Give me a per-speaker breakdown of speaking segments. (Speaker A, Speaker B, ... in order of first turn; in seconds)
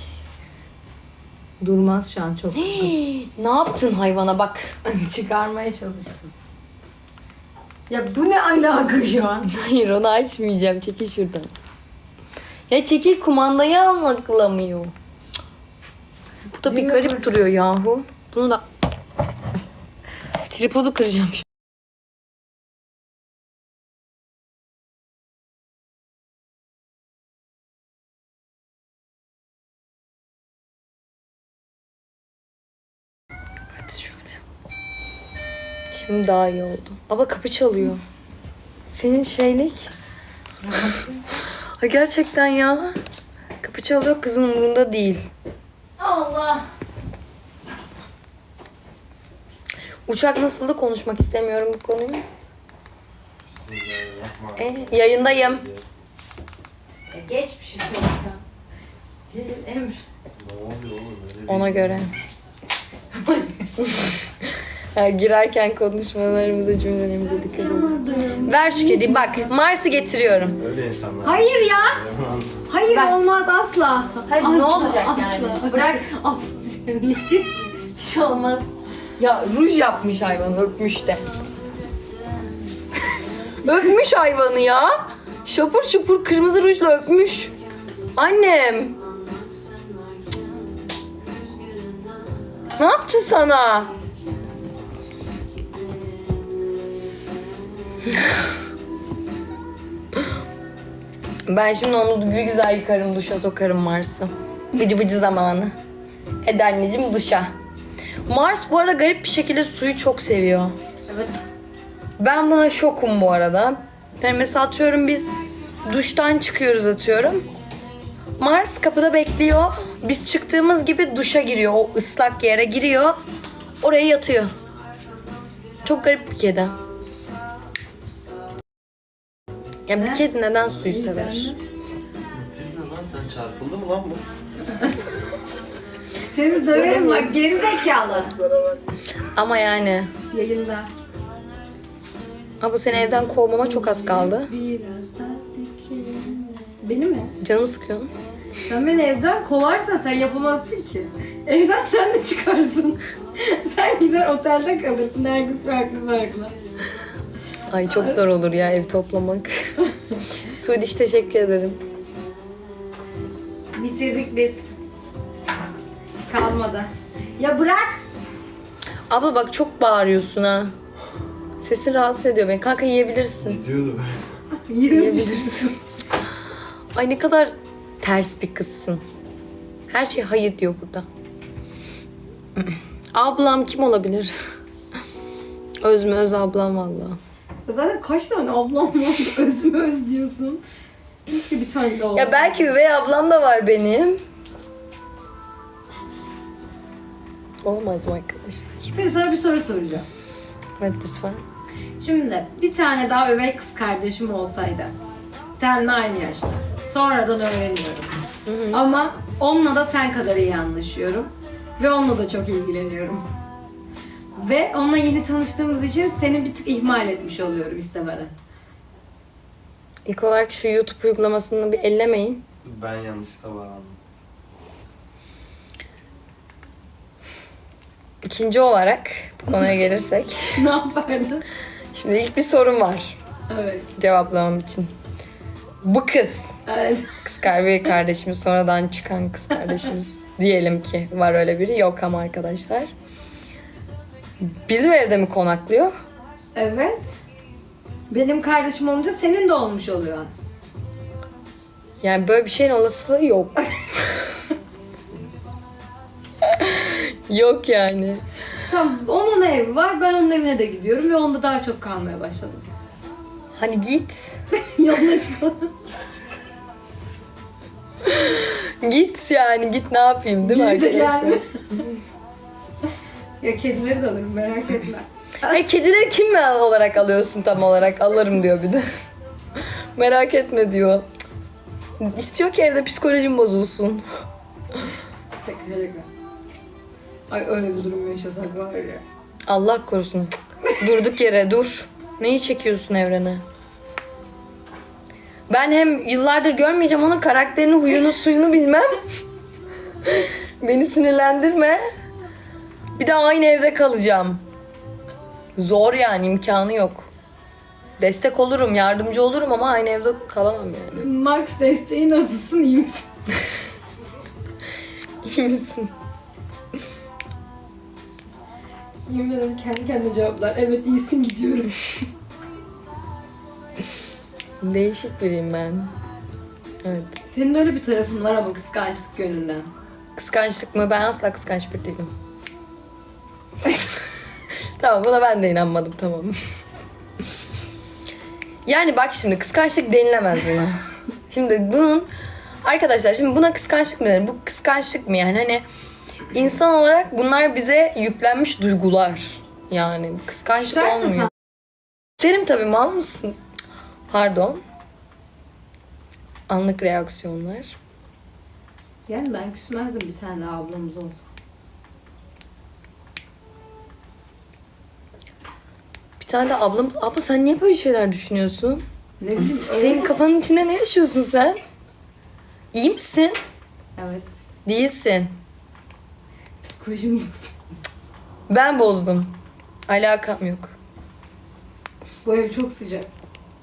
Speaker A: 1.6-2.9, 4.8-6.3, 7.9-9.5, 16.6-17.4, 40.6-41.2, 46.0-46.7, 57.1-58.4, 59.3-60.0, 63.1-63.7, 67.3-69.5, 71.2-72.0, 72.7-77.7, 111.1-111.3, 129.9-131.6, 134.7-135.0, 136.3-138.3, 140.3-140.9, 143.6-147.3, 148.7-156.6, 157.9-158.2, 163.7-164.7, 166.3-168.0, 174.7-175.7, 187.7-190.6, 191.3-192.7, 198.9-200.1, 202.0-204.9, 205.5-213.2, 214.4-218.3, 230.5-231.4, 233.5-233.9, 236.7-237.2, 246.6-247.1, 248.1-250.3, 258.7-262.7, 264.6-265.7, 270.4-271.8, 273.4-275.1, 285.4-286.1, 287.3-289.0, 310.9-313.1, 319.1-322.1, 327.3-329.7, 350.7-351.3, 359.1-361.3, 369.2-370.1, 374.0-374.3, 376.6-377.5, 382.2-383.1
Speaker B: 2.6-4.8, 9.4-11.5, 12.7-14.9, 16.5-18.6, 20.4-21.5, 33.8-34.4, 35.9-38.0, 38.9-39.9, 41.4-43.0, 43.6-45.3, 50.1-52.2, 54.6-55.7, 61.5-62.1, 63.8-64.2, 64.9-67.9, 68.4-70.6, 72.9-73.2, 74.3-76.0, 78.0-81.2, 83.6-84.9, 85.5-87.5, 88.2-88.9, 92.8-93.9, 101.5-105.8, 106.4-107.5, 108.3-110.7, 112.2-115.3, 115.8-117.4, 118.4-123.2, 123.8-124.5, 125.8-126.8, 129.9-131.5, 136.7-137.3, 138.5-140.1, 142.6-144.5, 147.4-148.1, 157.7-159.7, 160.5-161.8, 169.1-170.7, 171.6-173.6, 174.8-175.7, 176.9-179.0, 179.9-181.1, 183.1-184.3, 185.8-187.2, 192.1-194.2, 197.6-198.9, 200.8-201.4, 208.5-208.9, 220.1-222.4, 228.2-230.6, 231.9-233.2, 234.0-234.9, 235.8-236.6, 237.2-242.9, 244.4-245.9, 252.0-254.2, 256.4-258.2, 263.6-264.4, 268.1-271.9, 275.4-278.9, 279.9-281.1, 282.0-284.1, 289.5-293.4, 295.5-299.0, 300.0-301.8, 303.0-304.4, 305.6-307.1, 308.0-311.0, 315.2-315.9, 324.6-325.9, 326.8-327.2, 330.2-332.1, 334.8-336.4, 338.7-342.1, 342.6-345.6, 346.3-351.3, 352.2-353.4, 354.1-354.6, 356.5-357.8, 366.2-368.8, 369.7-371.6, 372.7-373.4, 374.6-375.3, 378.5-379.3, 379.9-380.7
Speaker C: 53.5-55.8, 60.4-62.1, 70.6-72.6, 132.3-134.3, 173.4-174.2, 222.6-224.0